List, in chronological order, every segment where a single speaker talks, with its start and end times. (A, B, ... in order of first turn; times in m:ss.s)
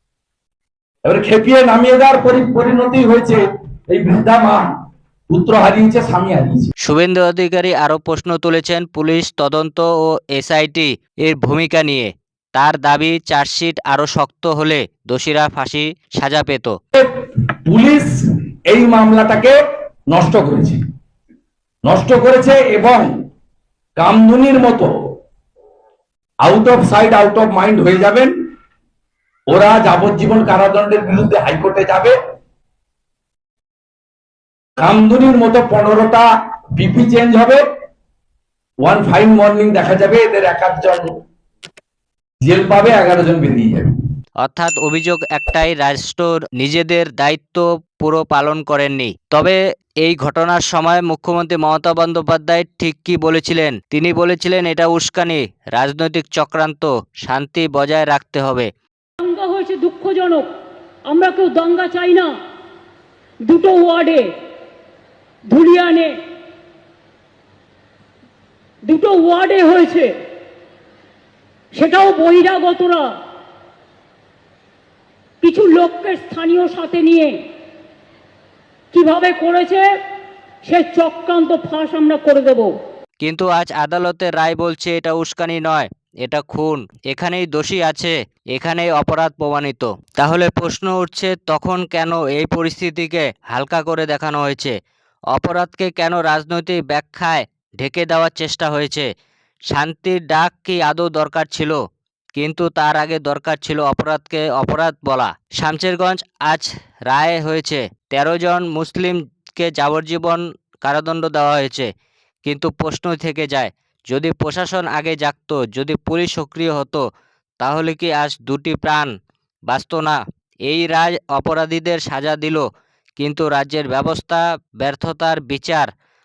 0:01.0-0:04.6 A
0:05.3-0:06.7 A
0:06.8-0:16.8 B
0:17.7-0:18.1 A
0:18.7-0:19.6 A
0:20.1-0:20.8 A
0:21.8-0:23.1 A
0:24.0-0:24.9 A
0:26.4-0:28.3 A
0:29.5-0:32.2 A
0:34.8-0:36.3 A
0:36.8-0:37.6 A
0:38.8-0:41.1 A
0:42.4-0:43.9 A
0:44.4-0:58.7 B
0:59.2-1:00.5 C
1:01.1-1:02.3 C
1:03.4-1:04.3 C
1:05.5-1:06.1 C
1:08.9-1:10.1 C
1:11.7-1:13.1 C
1:15.4-1:17.4 C
1:18.9-1:19.8 C
1:20.6-1:22.7 C
1:23.2-1:34.8 B
1:35.3-1:39.1 B
1:39.7-1:41.8 B
1:42.4-1:51.9 B
1:52.4-1:57.0 B
1:57.6-1:59.1 B
1:59.7-2:02.6 B
2:03.2-2:05.9 B